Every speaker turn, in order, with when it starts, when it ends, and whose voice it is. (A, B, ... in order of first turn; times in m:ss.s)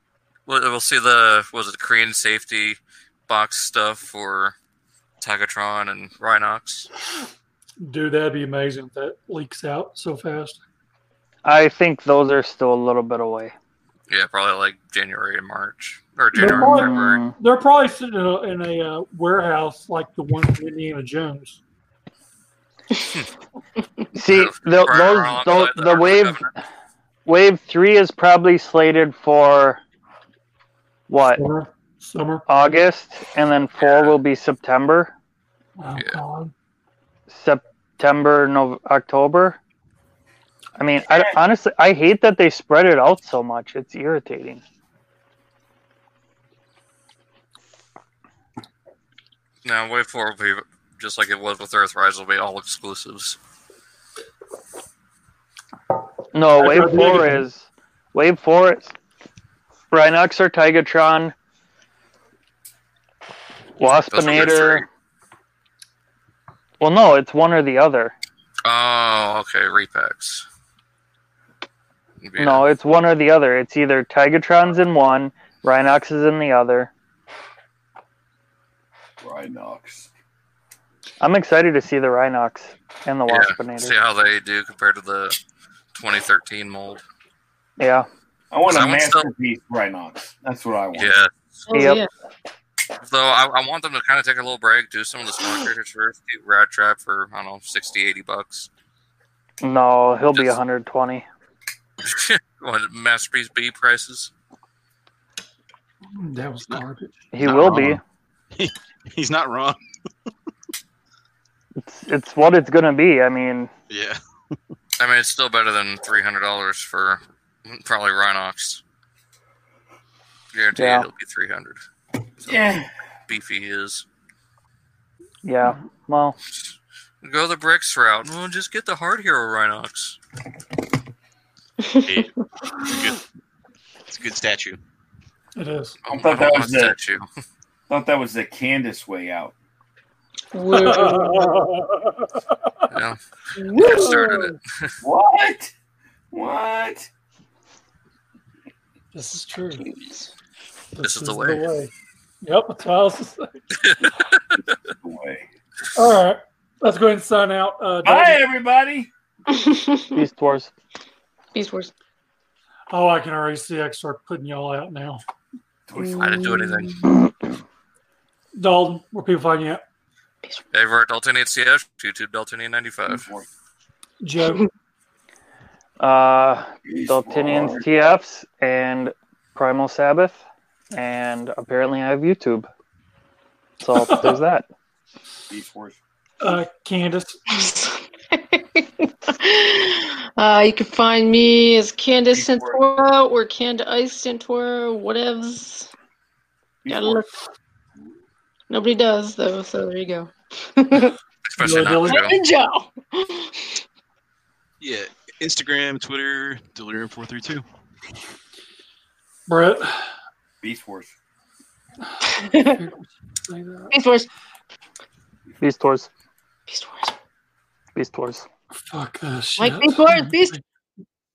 0:00.5-0:04.6 A
0:05.2-0:06.9 A
0:07.8-0:10.6 B
0:11.4-0:13.5 C
0:14.1-0:17.2 A
0:16.4-0:21.6 B
0:16.5-0:17.3 C
0:24.1-0:26.4 C
0:24.3-0:26.5 A
0:27.3-0:29.8 C
0:31.1-0:31.4 C
0:31.4-0:32.4 B
0:32.5-0:35.1 C
0:33.8-0:34.2 A
0:35.8-0:36.5 B
0:37.3-0:39.6 C
0:40.8-0:44.6 C
0:49.6-0:53.4 A
0:56.3-0:58.9 C
0:56.6-0:57.4 B
0:59.9-1:01.3 C
1:03.8-1:04.9 C
1:03.9-1:04.9 A
1:06.8-1:08.1 C
1:08.6-1:10.4 A
1:12.2-1:12.6 A
1:12.4-1:16.9 C
1:19.2-1:20.1 D
1:21.2-1:24.0 C
1:23.3-1:25.4 A
1:25.9-1:27.0 A
1:27.8-1:28.1 C
1:28.5-1:31.1 D
1:28.7-1:29.3 A
1:31.0-1:31.3 A
1:31.7-1:32.1 E
1:31.7-1:32.0 C
1:33.0-1:38.7 A
1:39.6-1:41.3 C
1:42.0-1:44.3 A
1:46.1-1:47.2 B
1:47.3-1:48.0 C
1:47.4-1:48.0 F
1:48.6-1:49.8 F
1:51.8-1:53.7 C
1:53.9-1:54.2 F
1:55.0-1:58.8 A
2:00.5-2:01.8 A
2:00.8-2:01.0 C
2:02.4-2:02.9 D
2:03.3-2:04.0 A
2:05.4-2:06.4 C
2:06.5-2:10.2 A
2:11.8-2:12.1 E
2:12.0-2:13.2 F
2:14.0-2:14.8 F
2:15.6-2:16.0 B
2:16.0-2:17.3 A
2:16.1-2:17.0 D
2:17.9-2:19.5 D
2:20.5-2:21.5 E
2:20.6-2:22.0 B
2:22.9-2:23.2 A
2:23.6-2:24.6 E
2:23.7-2:25.0 A
2:23.9-2:24.4 B
2:25.0-2:25.7 D
2:26.3-2:27.1 D
2:29.1-2:29.9 B
2:29.8-2:30.3 D
2:31.0-2:31.9 B
2:31.0-2:31.7 A
2:32.4-2:33.8 B
2:33.8-2:34.6 A
2:34.8-2:35.4 D
2:36.0-2:38.4 B
2:38.0-2:39.1 D
2:39.5-2:40.2 E
2:40.1-2:40.7 C
2:41.5-2:41.9 E
2:42.9-2:45.2 B
2:45.9-2:46.5 D
2:46.0-2:47.2 E
2:46.2-2:47.2 A
2:48.6-2:49.8 B
2:50.7-2:53.2 A
2:53.1-2:53.5 D
2:54.2-2:54.6 B
2:56.0-3:00.4 C
2:56.9-2:57.8 D
3:00.9-3:02.7 C
3:03.8-3:04.7 C
3:05.5-3:06.0 D
3:06.4-3:07.4 B
3:07.5-3:15.9 E
3:12.3-3:12.8 D
3:16.8-3:17.3 D
3:16.9-3:17.3 E
3:18.7-3:21.2 E
3:21.5-3:22.4 A
3:21.6-3:22.3 B
3:22.0-3:23.8 E
3:24.8-3:27.6 F
3:29.5-3:30.0 B
3:30.6-3:31.1 D
3:32.3-3:32.8 E
3:32.6-3:33.9 B
3:33.9-3:34.3 E
3:35.6-3:36.1 C
3:36.7-3:37.1 E
3:38.0-3:38.4 C
3:38.8-3:40.6 B
3:39.6-3:40.6 E